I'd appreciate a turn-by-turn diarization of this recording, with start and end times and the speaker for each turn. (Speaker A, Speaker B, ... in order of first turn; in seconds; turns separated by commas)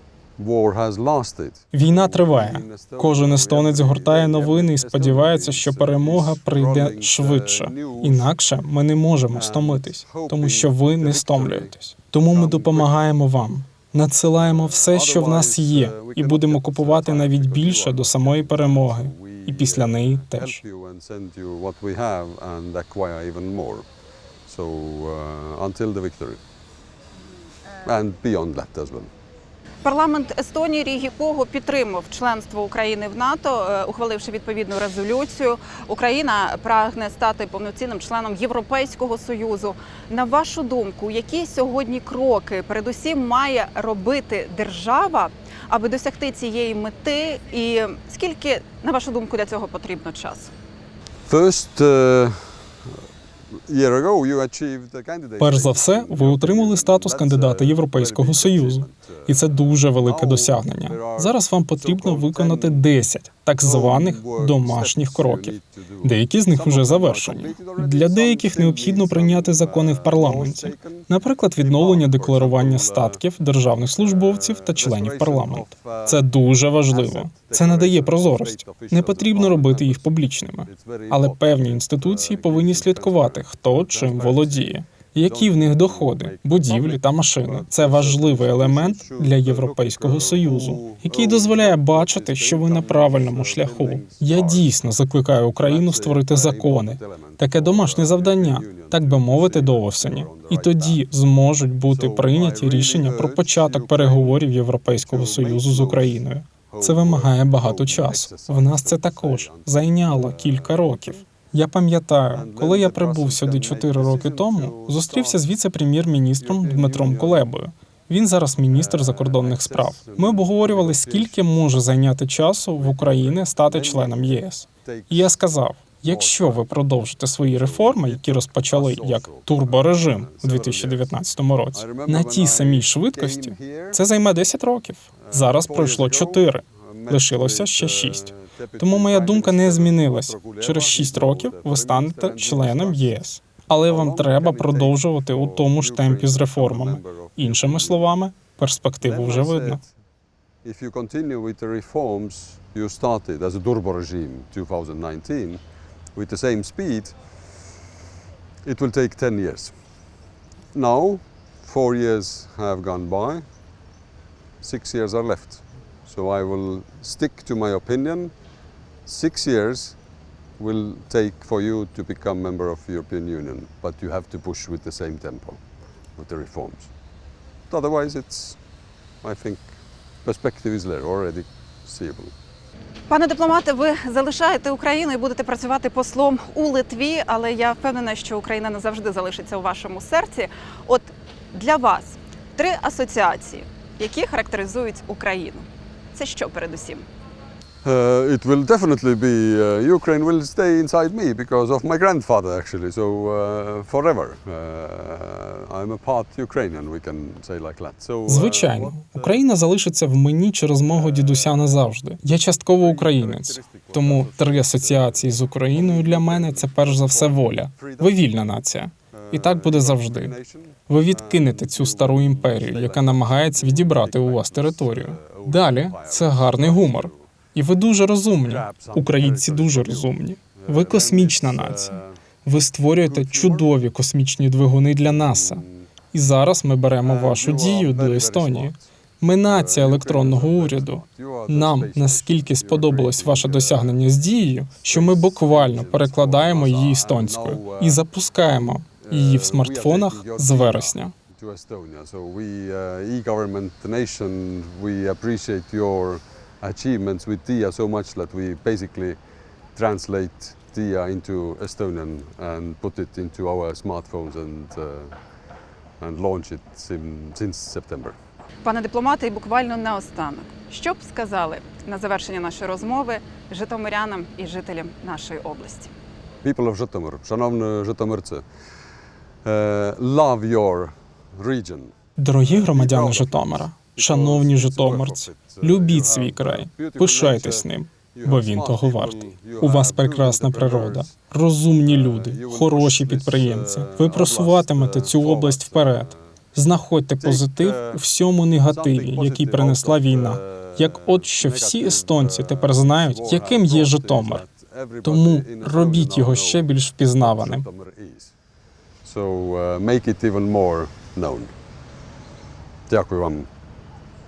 Speaker A: 0.4-8.3, Speaker B: 1.7-20.6, Speaker A: 9.3-11.7, Speaker A: 12.3-13.0, Speaker A: 14.3-23.9, Speaker A: 24.5-26.4, Speaker A: 27.8-29.1, Speaker C: 29.8-50.5, Speaker A: 51.3-52.6, Speaker A: 53.7-62.9, Speaker B: 55.4-149.8, Speaker A: 63.6-73.2, Speaker A: 74.0-76.3, Speaker A: 76.9-80.1, Speaker A: 80.6-94.8, Speaker A: 95.6-101.0, Speaker A: 101.8-111.3, Speaker A: 112.3-115.4, Speaker A: 116.4-117.5, Speaker A: 118.7-121.4, Speaker A: 122.8-125.4, Speaker A: 126.0-126.8, Speaker A: 127.4-131.1, Speaker A: 131.7-134.0, Speaker A: 135.2-143.2, Speaker A: 143.8-148.1, Speaker A: 149.0-149.9, Speaker A: 150.6-155.6, Speaker A: 156.2-157.1, Speaker A: 158.6-159.8, Speaker A: 160.7-163.4, Speaker A: 164.6-168.3, Speaker A: 169.0-170.0, Speaker A: 170.6-175.6, Speaker A: 176.2-176.9, Speaker A: 177.7-178.6, Speaker A: 179.2-179.7, Speaker A: 180.2-182.3, Speaker C: 183.1-197.1, Speaker A: 197.8-209.4, Speaker B: 208.3-220.3, Speaker A: 210.9-211.7, Speaker A: 212.7-218.2, Speaker A: 219.1-227.3, Speaker B: 220.9-251.1, Speaker A: 228.4-232.2, Speaker A: 232.9-233.7, Speaker A: 235.1-235.9, Speaker A: 237.0-238.8, Speaker A: 239.4-244.0, Speaker A: 244.8-248.0, Speaker A: 249.0-259.2, Speaker A: 259.7-265.1, Speaker A: 266.0-268.1, Speaker C: 268.6-275.9, Speaker A: 276.4-278.4, Speaker A: 279.4-281.9, Speaker B: 282.2-304.4, Speaker A: 282.4-291.1, Speaker A: 291.9-296.3, Speaker A: 297.2-298.0, Speaker A: 298.6-308.3, Speaker B: 305.0-307.6, Speaker A: 309.0-311.5, Speaker A: 312.9-313.5